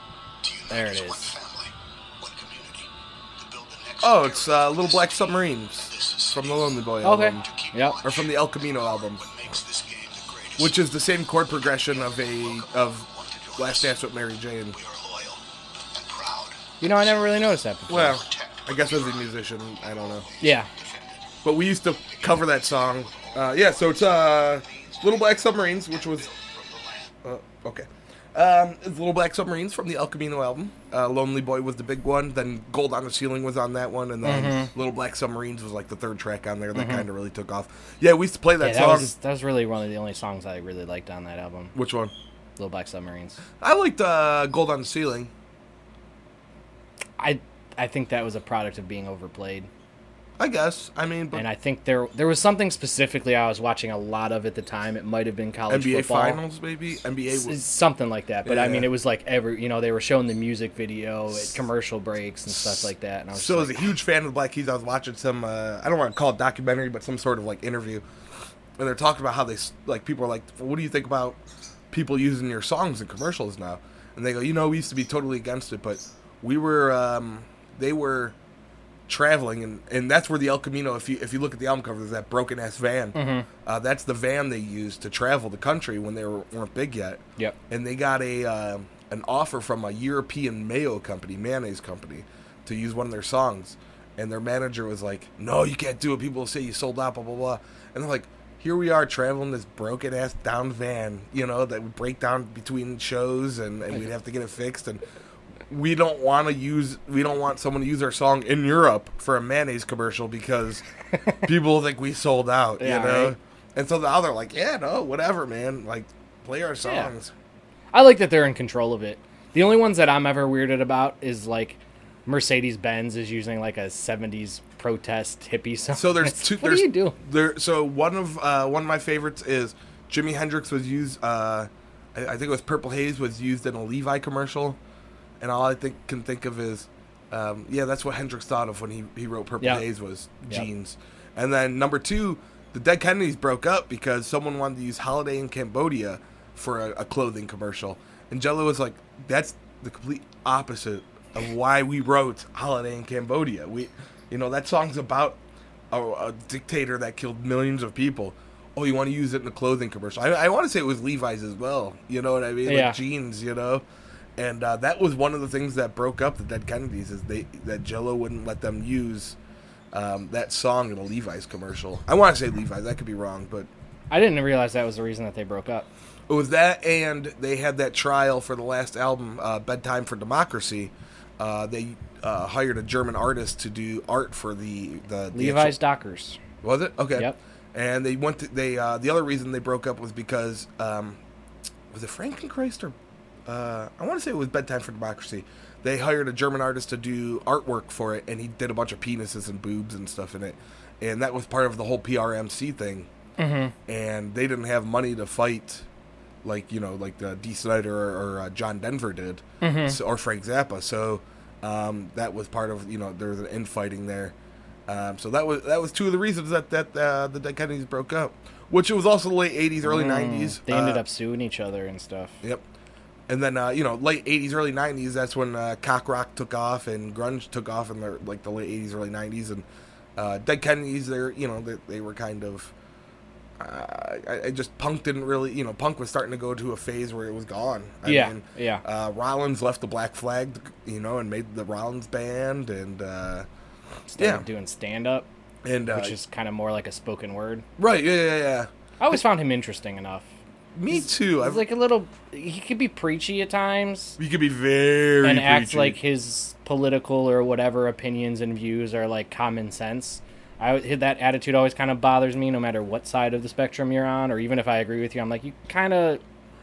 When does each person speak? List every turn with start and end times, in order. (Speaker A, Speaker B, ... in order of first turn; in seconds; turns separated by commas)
Speaker A: 0.4-10.8, Speaker B: 0.7-1.4, Speaker C: 4.0-7.5, Speaker B: 7.0-8.0, Speaker C: 8.0-9.2, Speaker C: 10.6-13.1, Speaker A: 11.4-14.0, Speaker C: 13.6-14.8, Speaker A: 14.7-21.4, Speaker B: 16.8-18.2, Speaker C: 17.9-20.3, Speaker B: 20.4-20.7, Speaker C: 21.4-26.3, Speaker A: 22.0-27.1, Speaker C: 27.2-39.1, Speaker B: 34.2-34.7, Speaker B: 36.7-37.1, Speaker B: 38.6-41.8, Speaker C: 41.8-42.1, Speaker B: 42.6-43.4, Speaker C: 43.6-45.3, Speaker B: 47.2-49.7, Speaker C: 50.4-51.5, Speaker B: 51.3-56.4, Speaker C: 55.7-57.6, Speaker B: 57.3-63.8, Speaker C: 58.5-58.9, Speaker C: 62.5-68.0, Speaker C: 68.8-71.4, Speaker C: 71.9-78.3, Speaker C: 79.1-105.0, Speaker B: 83.1-83.5, Speaker C: 105.7-110.8, Speaker C: 111.4-117.3, Speaker B: 112.8-113.3, Speaker B: 116.8-117.1, Speaker B: 117.9-127.2, Speaker C: 126.0-134.8, Speaker C: 135.4-155.4, Speaker C: 155.9-163.8, Speaker B: 162.7-163.0, Speaker C: 164.4-169.4, Speaker C: 169.9-173.7, Speaker B: 174.1-175.9, Speaker C: 176.3-185.8, Speaker B: 185.3-186.4, Speaker C: 186.6-191.2, Speaker C: 191.9-192.9, Speaker C: 193.5-203.1, Speaker B: 203.4-203.7, Speaker C: 203.9-205.8, Speaker C: 206.4-214.3, Speaker B: 209.6-210.0, Speaker C: 214.9-221.0, Speaker B: 219.8-222.4, Speaker C: 223.3-229.7, Speaker C: 230.2-232.7, Speaker C: 233.6-243.5, Speaker B: 238.1-238.8, Speaker B: 244.1-245.3, Speaker C: 244.2-244.4, Speaker C: 245.6-246.1, Speaker B: 245.9-247.7, Speaker C: 247.8-248.7, Speaker B: 249.0-250.3, Speaker C: 250.8-251.7, Speaker B: 250.9-254.2, Speaker C: 254.2-256.0, Speaker B: 255.2-266.2